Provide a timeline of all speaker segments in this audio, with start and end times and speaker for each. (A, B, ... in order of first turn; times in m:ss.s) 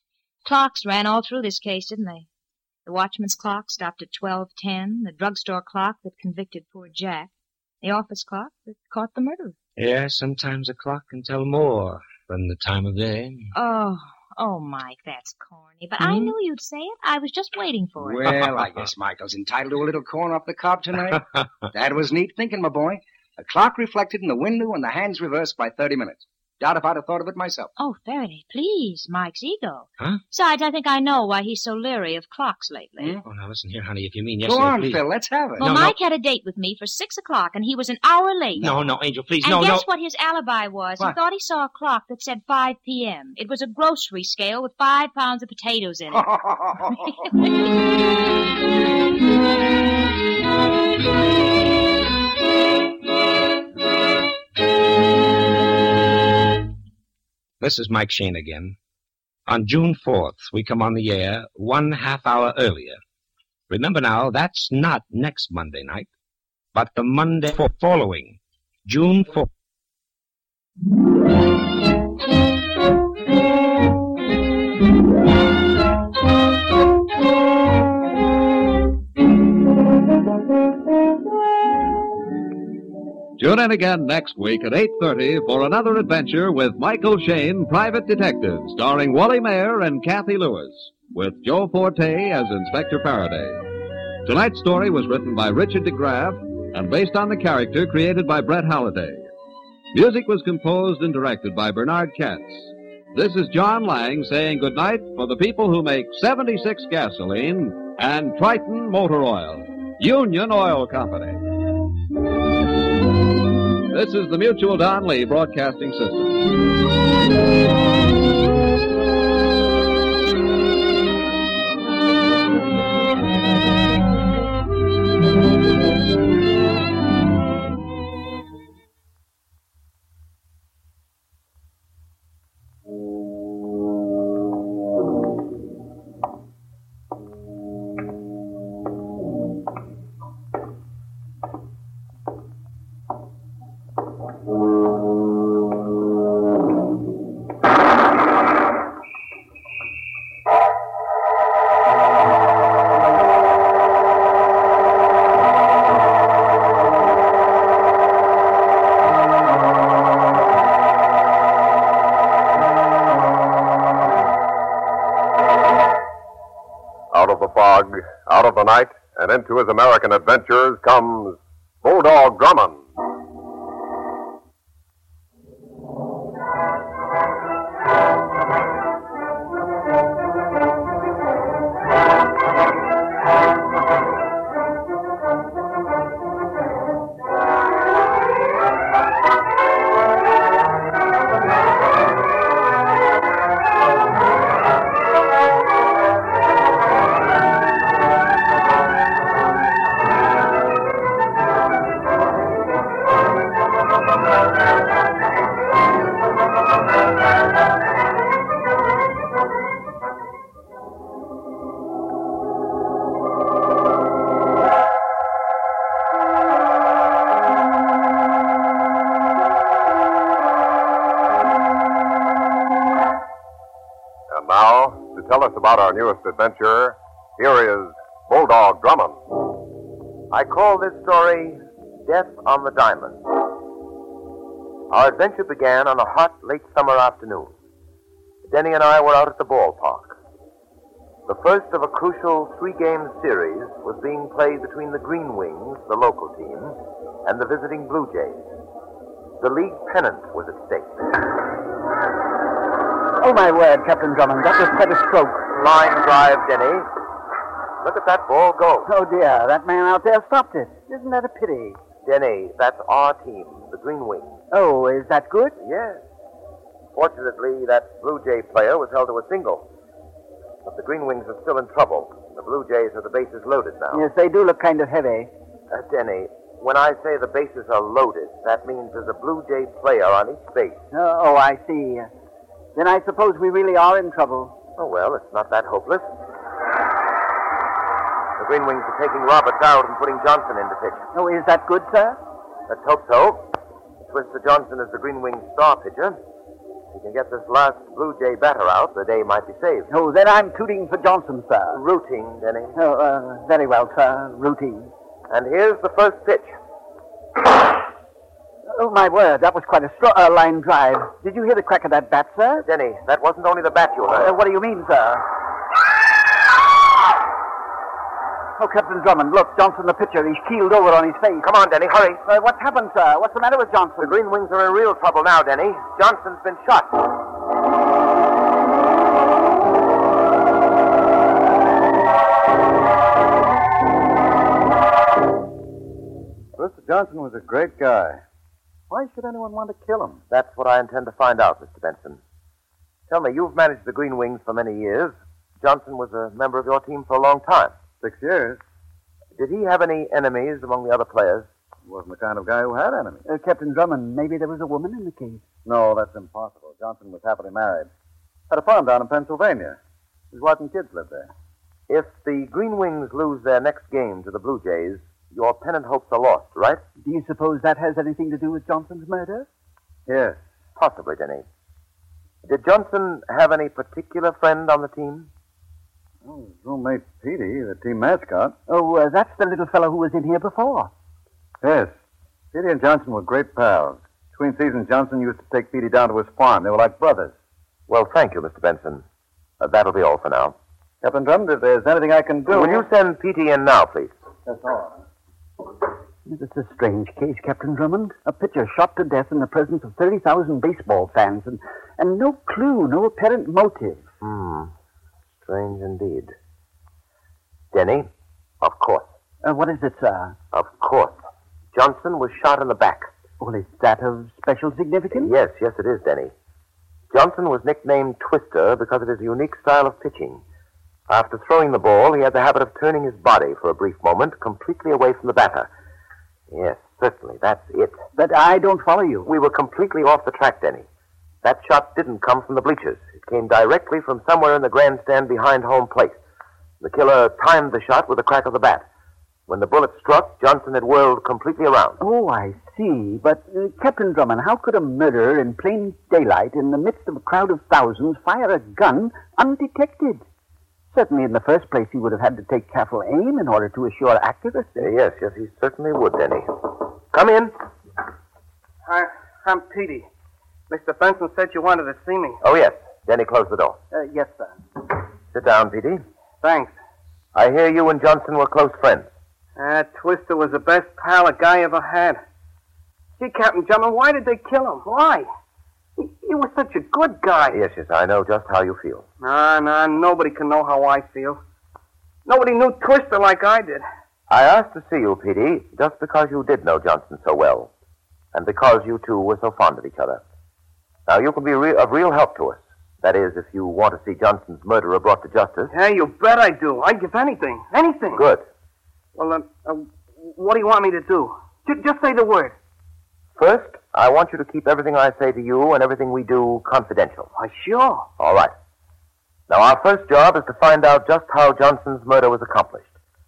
0:00.4-0:02.3 A
0:02.9-0:07.3 A
0:07.8-0:09.6 A
0:09.8-0:13.5 B
0:13.5-0:18.3 A
0:16.0-0:16.3 B
0:18.0-0:27.7 C
0:27.8-0:33.2 A
0:33.0-0:33.2 C
0:33.2-0:35.0 B
0:34.4-0:35.8 C
0:35.6-0:38.7 A
0:35.6-0:35.9 B
0:38.6-0:39.9 B
0:39.4-0:46.4 A
0:46.1-0:47.1 C
0:46.9-0:47.3 A
0:57.6-0:58.8 B
0:59.5-1:03.0 B
1:03.7-1:06.1 B
1:06.7-1:09.5 B
1:23.4-1:33.6 D
1:34.2-1:39.3 D
1:39.9-1:51.4 D
1:53.9-1:56.4 D
2:47.1-2:52.9 E
3:44.3-3:49.2 E
3:50.3-3:53.2 F
3:54.9-3:57.6 F
3:58.5-4:00.2 F
4:01.3-4:08.4 F
4:09.4-4:11.0 F
4:13.2-4:15.5 G
4:15.5-4:16.9 F
4:17.8-4:18.9 F
4:18.9-4:21.8 G
4:22.0-4:24.4 F
4:24.5-4:25.6 G
4:25.6-4:26.0 F
4:27.0-4:29.7 F
4:30.6-4:34.1 F
4:33.9-4:35.3 G
4:35.7-4:40.8 F
4:40.9-4:42.1 G
4:42.8-4:44.6 G
4:44.8-4:46.1 F
4:48.4-4:51.0 F
4:51.1-4:52.2 G
4:52.7-4:53.5 F
4:54.1-4:56.2 F
4:56.9-4:59.9 F
4:59.9-5:01.8 G
5:01.7-5:02.8 F
5:02.8-5:04.9 G
5:05.3-5:06.6 F
5:08.7-5:12.7 G
5:12.6-5:14.3 F
5:14.1-5:15.2 G
5:18.6-5:21.5 G
5:21.4-5:22.2 F
5:22.2-5:24.2 G
5:24.0-5:27.0 F
5:36.6-5:38.2 H
5:38.9-5:40.2 H
5:40.3-5:42.2 F
5:43.1-5:47.8 F
5:48.0-5:48.6 H
5:49.4-5:51.5 F
5:51.8-5:53.2 H
5:53.3-5:55.4 G
5:55.6-5:57.9 H
5:58.5-5:59.8 H
6:00.3-6:01.3 H
6:01.9-6:06.8 F
6:07.0-6:09.5 G
6:10.1-6:10.4 H
6:10.8-6:11.4 F
6:12.4-6:15.3 F
6:16.2-6:18.6 H
6:18.7-6:20.9 G
6:21.6-6:22.0 H
6:22.5-6:27.3 H
6:27.9-6:29.0 F
6:29.6-6:30.6 F
6:31.0-6:32.8 H
6:32.5-6:34.1 F
6:34.5-6:35.0 H
6:36.3-6:44.1 G
6:44.2-6:44.7 F
6:45.4-6:46.3 F
6:47.7-6:48.1 F
6:48.6-6:49.1 F
6:49.4-6:50.4 G
6:50.5-6:51.2 F
6:51.7-6:53.1 F
6:53.4-6:55.4 G
6:55.1-6:56.3 F
6:57.1-7:00.4 F
7:01.1-7:05.7 F
7:06.5-7:08.0 F
7:08.2-7:09.3 G
7:09.3-7:10.9 F
7:11.4-7:16.2 F
7:16.8-7:18.9 F
7:19.5-7:22.0 F
7:22.0-7:30.2 G
7:30.9-7:35.0 G
7:34.8-7:37.6 F
7:38.8-7:40.1 I
7:40.7-7:42.4 I
7:42.4-7:43.8 F
7:43.9-7:44.6 G
7:45.3-7:46.0 F
7:46.4-7:46.8 I
7:47.4-7:49.1 F
7:49.6-7:52.2 I
7:53.2-7:55.3 I
7:56.0-7:57.6 I
7:57.5-7:59.1 F
7:59.2-8:01.4 I
8:02.3-8:03.8 I
8:04.3-8:07.7 F
8:08.3-8:10.2 F
8:11.1-8:15.7 F
8:15.7-8:18.2 I
8:18.1-8:18.4 F
8:19.2-8:22.6 I
8:23.4-8:27.3 F
8:27.4-8:28.1 I
8:28.2-8:28.5 F
8:29.5-8:32.9 F